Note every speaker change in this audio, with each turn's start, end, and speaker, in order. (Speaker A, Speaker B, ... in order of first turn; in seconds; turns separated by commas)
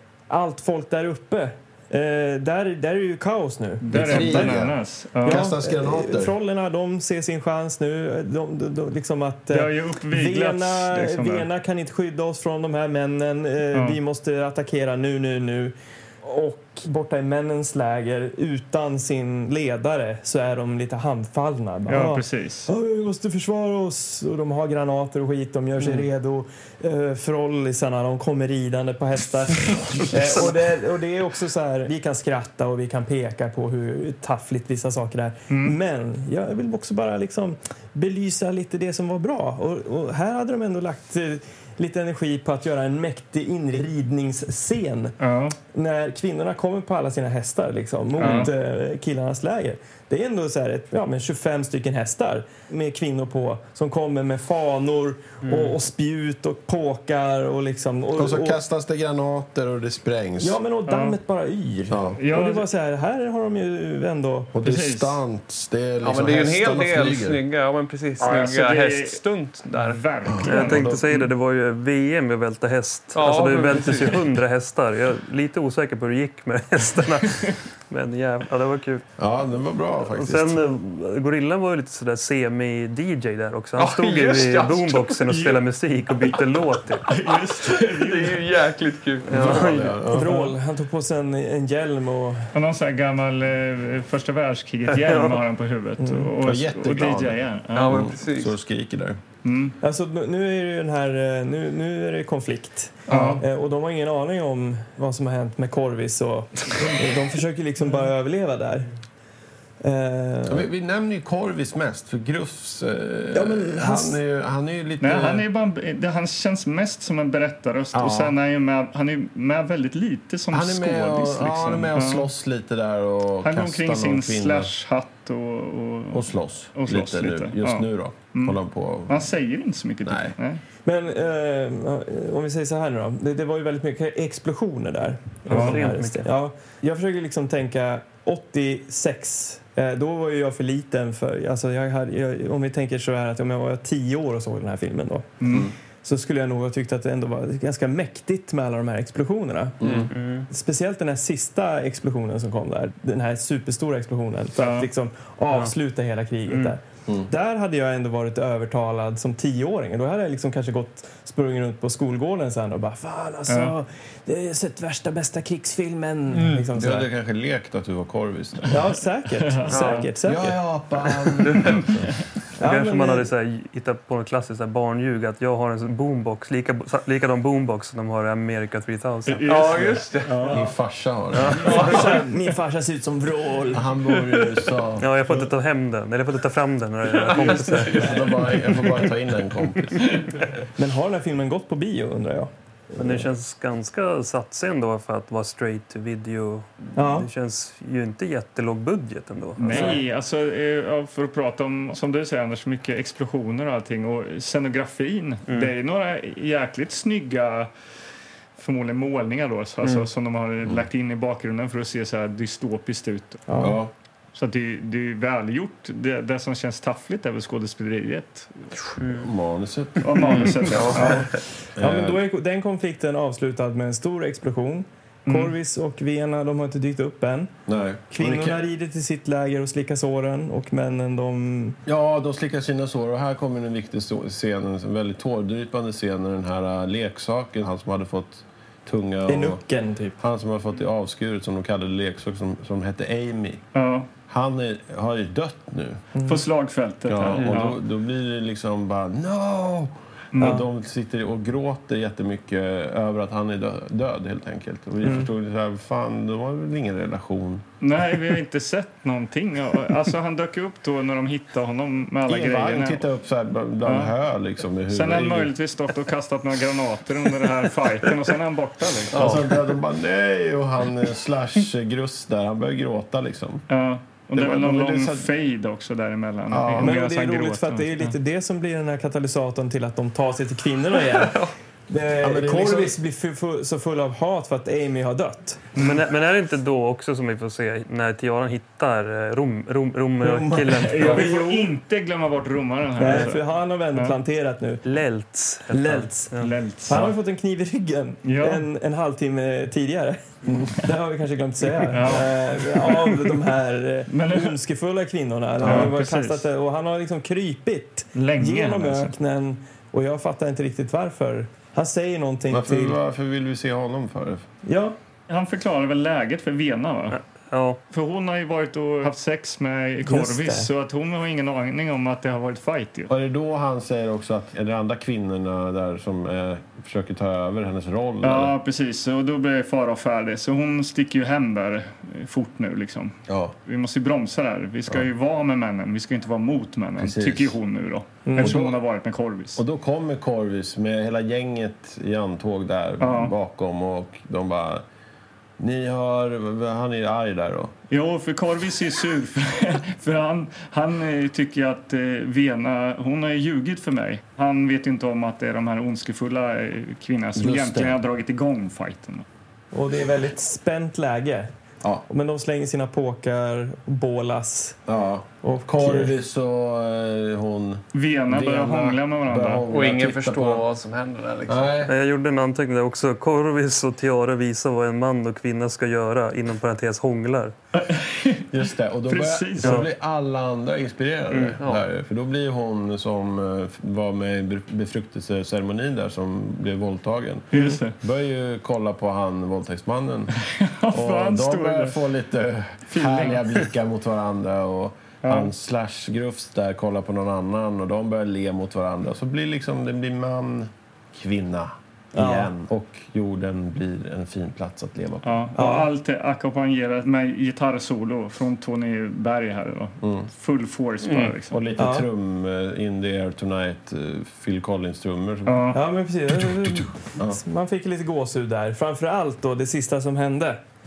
Speaker A: 0.3-4.6, Speaker B: 3.8-5.4, Speaker C: 3.9-6.3, Speaker A: 5.2-45.1, Speaker B: 9.5-11.5, Speaker B: 21.9-22.7, Speaker D: 29.9-30.5, Speaker B: 35.5-35.8, Speaker B: 45.2-45.5, Speaker A: 45.7-58.6, Speaker B: 48.2-48.5, Speaker D: 55.5-55.7, Speaker C: 58.1-60.6, Speaker A: 60.4-64.5, Speaker B: 60.9-61.1, Speaker C: 61.9-62.2, Speaker B: 62.2-62.6, Speaker C: 64.5-67.4, Speaker B: 64.6-65.2, Speaker E: 66.0-70.0, Speaker B: 68.2-71.3, Speaker C: 70.2-71.0, Speaker D: 70.4-79.1, Speaker E: 73.1-74.3, Speaker C: 79.2-80.6, Speaker D: 80.0-87.1, Speaker E: 83.8-85.4, Speaker B: 87.1-88.5, Speaker E: 87.3-89.9, Speaker D: 89.3-90.1, Speaker C: 89.3-90.4, Speaker A: 90.1-92.5, Speaker B: 92.5-98.0, Speaker A: 96.0-96.3, Speaker C: 96.4-99.2, Speaker E: 97.7-98.5, Speaker B: 99.4-99.8, Speaker A: 99.8-108.9, Speaker B: 103.1-103.4, Speaker C: 103.1-103.3, Speaker A: 109.8-110.7, Speaker C: 110.5-115.4, Speaker A: 113.3-114.2, Speaker B: 115.0-122.3, Speaker C: 117.9-118.3, Speaker C: 120.5-124.7, Speaker B: 123.4-130.6, Speaker C: 126.1-129.3, Speaker C: 130.0-130.3, Speaker A: 130.8-145.5, Speaker D: 135.5-136.3, Speaker B: 135.5-135.8, Speaker B: 145.4-145.7, Speaker A: 146.0-149.9, Speaker C: 149.8-150.1, Speaker D: 150.1-150.5, Speaker A: 150.5-167.1, Speaker B: 154.6-154.9, Speaker B: 163.5-163.7, Speaker E: 166.3-166.7, Speaker C: 166.7-168.8, Speaker A: 168.7-170.6, Speaker B: 169.4-170.1, Speaker E: 169.7-170.1, Speaker C: 170.2-172.1, Speaker E: 171.4-171.8, Speaker A: 172.6-173.3, Speaker D: 172.6-179.8, Speaker B: 179.3-180.7, Speaker E: 179.4-180.7, Speaker C: 180.5-182.1, Speaker E: 181.6-182.1, Speaker A: 181.6-183.9, Speaker C: 183.7-185.4, Speaker E: 184.2-184.6, Speaker D: 185.0-188.3, Speaker E: 187.1-189.0, Speaker C: 187.9-190.2, Speaker A: 190.8-193.3, Speaker D: 193.0-200.0, Speaker A: 196.9-197.3, Speaker B: 199.6-207.7, Speaker B: 208.6-213.4, Speaker E: 209.8-210.1, Speaker A: 213.5-213.8, Speaker C: 213.6-213.9, Speaker B: 214.3-219.0, Speaker E: 219.0-219.3, Speaker C: 219.1-221.2, Speaker B: 220.0-221.3, Speaker E: 220.1-221.2, Speaker A: 220.9-227.5, Speaker C: 221.8-222.2, Speaker B: 225.3-225.5, Speaker C: 227.7-228.6, Speaker A: 228.1-231.8, Speaker C: 231.8-239.6, Speaker A: 239.2-240.2, Speaker C: 240.2-243.6, Speaker B: 243.7-244.1, Speaker C: 244.3-246.0, Speaker A: 246.1-246.4, Speaker B: 246.2-247.8, Speaker C: 247.1-257.6, Speaker E: 247.4-247.7, Speaker B: 250.3-250.6, Speaker A: 250.4-250.6, Speaker A: 255.0-255.3, Speaker B: 257.8-263.1, Speaker C: 262.2-265.5, Speaker B: 263.8-264.1, Speaker B: 264.9-269.4, Speaker C: 269.1-273.6, Speaker E: 269.1-269.7, Speaker B: 273.7-278.1, Speaker C: 274.3-275.3, Speaker C: 276.5-276.9, Speaker A: 276.8-285.7, Speaker E: 281.2-281.5, Speaker C: 282.2-282.9, Speaker B: 285.8-286.0, Speaker D: 285.8-291.5, Speaker A: 290.2-291.7, Speaker B: 290.8-293.4, Speaker A: 293.0-294.8, Speaker D: 294.8-296.5, Speaker A: 295.7-296.3, Speaker B: 296.4-297.1, Speaker A: 296.9-313.0, Speaker B: 298.2-298.6, Speaker B: 301.9-302.3, Speaker B: 304.1-304.5, Speaker B: 305.6-306.4, Speaker B: 308.1-309.1, Speaker C: 312.5-314.5, Speaker A: 314.6-315.0, Speaker B: 315.3-317.2, Speaker D: 317.1-317.8, Speaker B: 317.9-323.1, Speaker A: 320.0-320.7, Speaker C: 323.1-328.5, Speaker B: 328.2-339.6, Speaker C: 333.3-333.5, Speaker C: 337.0-337.6, Speaker A: 338.2-338.6, Speaker C: 338.4-338.8, Speaker C: 339.5-344.8, Speaker B: 343.0-343.3, Speaker C: 345.6-347.7, Speaker B: 347.9-359.2, Speaker C: 357.4-358.0, Speaker A: 359.7-361.5, Speaker A: 362.1-364.8, Speaker C: 364.9-370.6, Speaker A: 365.4-366.1, Speaker B: 367.9-369.6, Speaker E: 369.7-371.7, Speaker C: 371.5-371.9, Speaker D: 371.9-377.5, Speaker B: 377.7-378.4, Speaker C: 378.5-390.4, Speaker B: 379.1-379.9, Speaker E: 381.6-381.8, Speaker B: 387.5-387.9, Speaker B: 390.4-392.0, Speaker C: 390.9-405.5, Speaker B: 392.9-393.6, Speaker B: 395.2-395.5, Speaker A: 402.1-402.5, Speaker B: 405.2-411.6, Speaker A: 405.6-405.9, Speaker C: 410.0-410.3, Speaker E: 411.0-411.3, Speaker C: 411.5-415.8, Speaker A: 411.8-412.1, Speaker B: 415.4-415.8, Speaker A: 415.7-420.6, Speaker C: 416.4-417.4